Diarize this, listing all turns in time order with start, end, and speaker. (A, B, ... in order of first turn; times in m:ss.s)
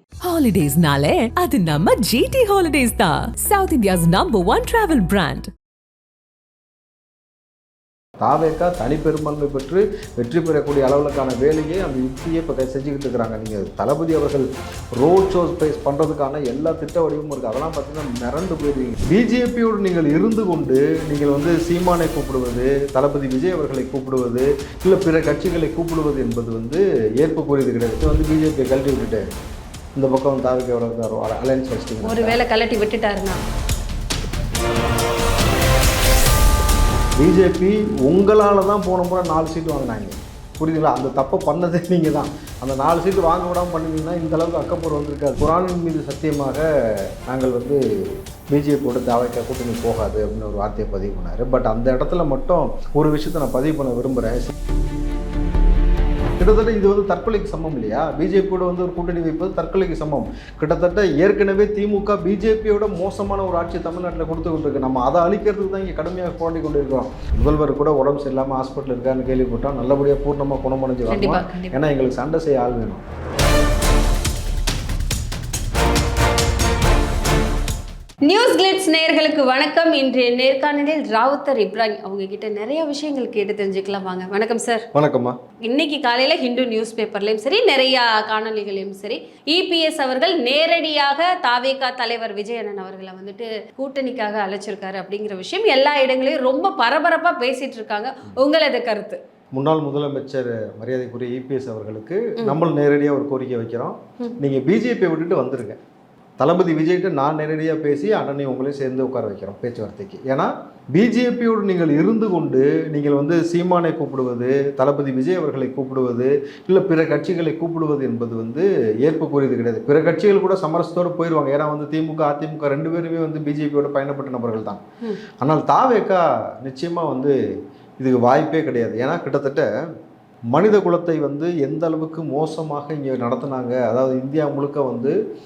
0:00.2-0:05.5 A
0:08.2-0:29.2 B
0:30.0-0:32.4 B
0:32.0-0:33.4 C
0:37.2-0:54.5 B
0:56.4-1:13.0 B
1:11.1-1:11.8 C
1:18.2-1:24.8 C
1:25.0-1:25.4 B
1:25.6-1:39.2 C
1:39.5-1:45.8 B
1:46.4-2:04.8 B
2:05.4-2:07.3 B
2:08.0-2:09.7 B
2:10.5-2:15.2 B